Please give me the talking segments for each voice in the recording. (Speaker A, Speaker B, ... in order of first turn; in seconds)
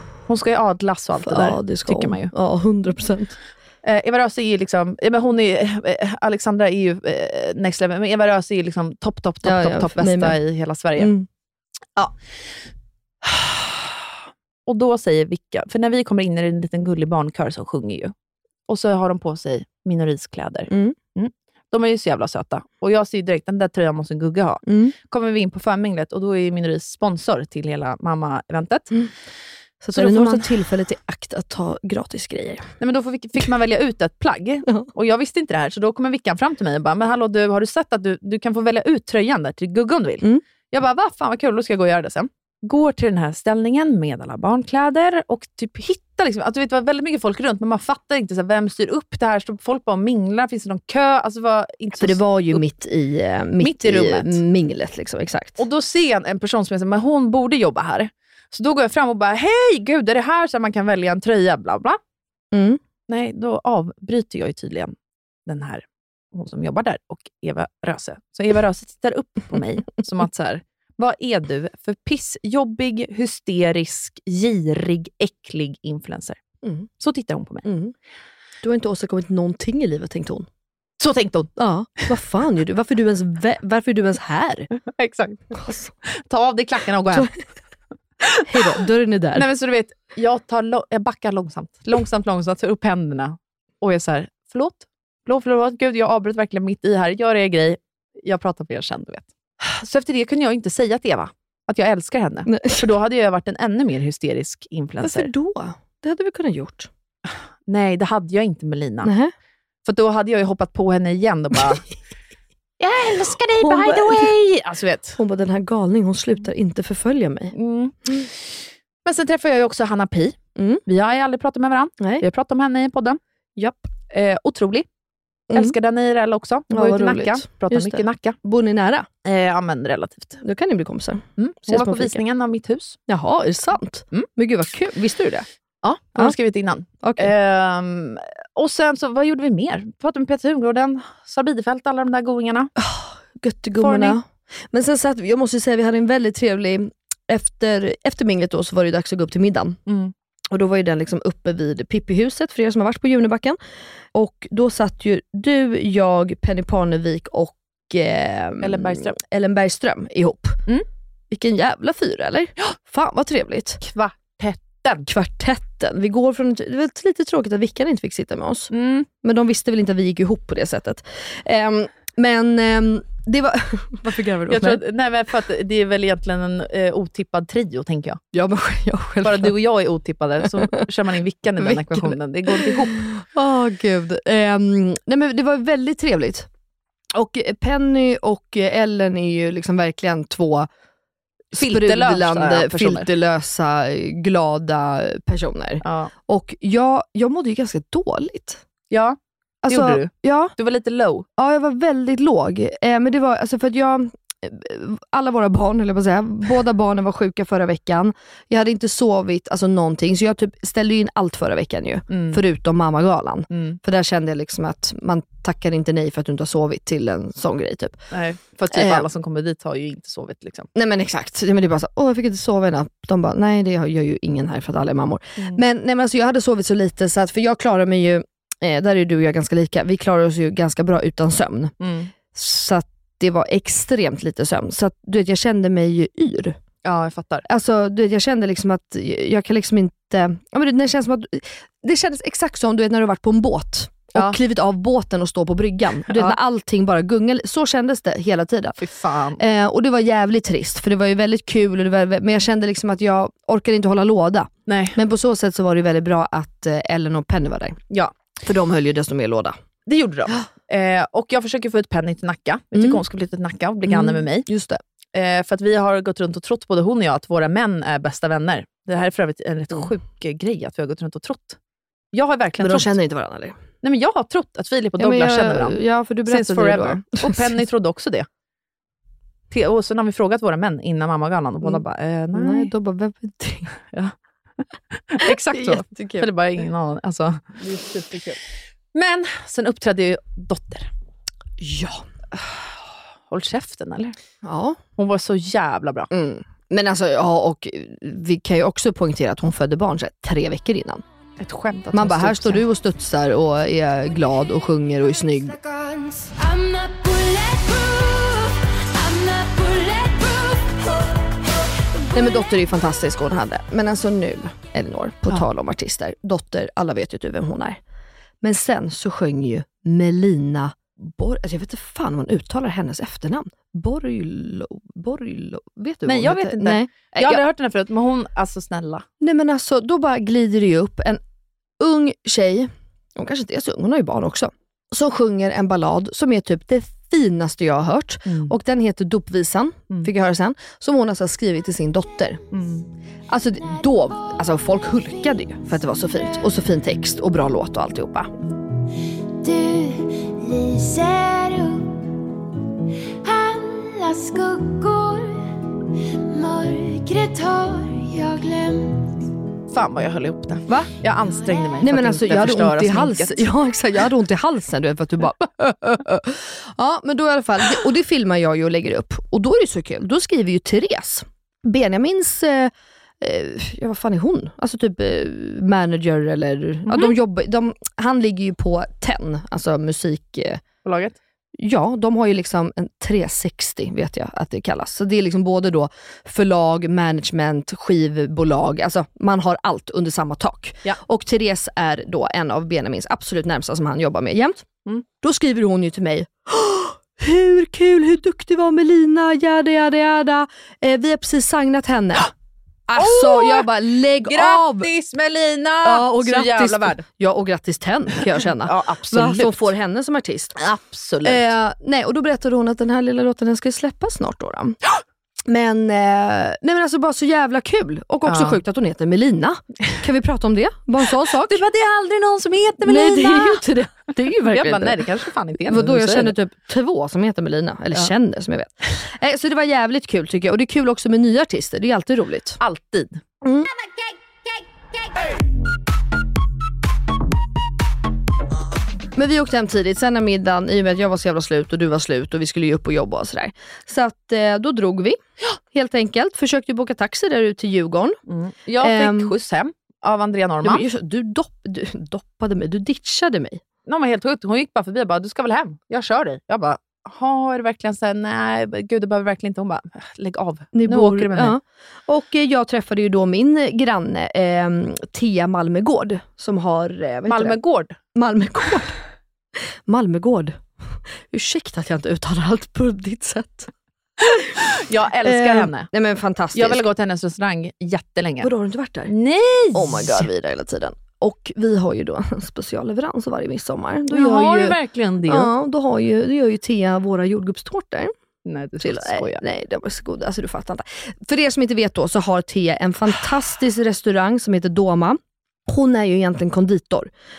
Speaker A: 0.3-2.3, 3.8-11.1, 13.2-14.0, 14.7-18.1, 18.7-29.0, 29.9-30.5, 32.8-52.6, 53.6-54.4, 55.6-62.0, 63.1-64.9, 65.5-76.4, 77.0-77.7, 81.0-81.6, 84.8-87.3, 89.3-105.3, 107.2-109.1, 109.8-111.8, 112.8-115.2, 117.5-118.5, 119.0-123.2, 124.1-124.9, 125.5-128.4, 129.2-130.4, 131.4-133.0, 135.8-142.7, 143.8-144.2, 149.9-150.1, 158.6-159.2, 163.8-165.1, 168.7-169.1, 174.5-178.2, 179.2-183.1, 191.6-193.1, 195.8-196.1, 198.9-201.3, 212.1-212.4, 213.5-213.8, 218.1-220.7, 231.8-232.1, 236.8-237.5, 246.1-246.4, 248.8-249.4, 254.7-255.0, 259.9-264.5, 265.1-271.6, 272.1-272.9, 273.8-278.3, 279.5-282.7, 284.9-288.4, 288.9-290.9, 293.3-294.2, 295.0-296.1, 301.4-302.6, 326.1-329.1, 338.3-338.5, 342.5-342.9, 359.7-363.5, 376.9-377.1, 380.8-381.2, 403.0-403.7, 404.2-407.0, 408.6-409.7, 410.6-411.5, 418.3-418.6, 421.4-423.6, 424.5-426.3, 432.6-433.2, 448.3-450.8, 453.9-461.6, 467.3-468.0, 474.8-475.9, 476.5-478.5, 479.1-480.3, 484.1-485.5, 488.4-489.4
Speaker B: 1.2-3.4, 9.4-10.4, 11.0-11.3, 20.7-21.0, 24.7-24.9, 29.8-32.7, 52.0-55.6, 62.5-62.8, 77.6-77.9, 78.6-80.5, 81.6-84.7, 85.6-85.9, 88.5-89.5, 102.5-102.9, 105.0-106.9, 109.0-109.3, 113.6-114.3, 115.2-117.5, 120.6-120.8, 123.6-123.9, 125.5-125.8, 126.7-129.1, 130.4-132.2, 133.1-135.5, 137.0-137.3, 142.8-149.8, 150.5-153.6, 154.1-160.6, 161.3-163.8, 165.1-168.7, 169.2-174.8, 178.3-179.6, 180.4-180.8, 181.6-186.5, 187.1-190.7, 191.5-198.6, 199.7-200.5, 201.4-218.1, 218.7-219.1, 220.8-231.8, 232.3-236.6, 237.5-248.8, 249.4-257.8, 258.4-259.6, 262.7-263.0, 263.9-264.8, 272.6-273.6, 275.0-277.6, 282.3-283.8, 285.5-286.3, 291.6-292.0, 294.4-294.8, 296.1-301.0, 301.9-305.6, 312.1-317.8, 318.4-327.4, 329.2-331.2, 331.8-342.4, 343.3-348.3, 360.7-360.9, 361.8-380.6, 381.6-394.7, 395.2-402.3, 402.9-404.9, 405.8-410.6, 411.2-414.8, 415.5-421.6, 422.8-425.1, 425.7-432.6, 433.4-433.7, 439.1-445.2, 445.7-448.2, 448.8-449.3, 450.6-453.6, 460.7-467.6, 468.1-468.9, 469.6-473.7, 475.2-476.8, 478.4-479.1, 479.7-488.1, 488.8-497.1
Speaker C: 306.2-311.0, 349.4-352.0, 353.2-355.6, 356.3-359.3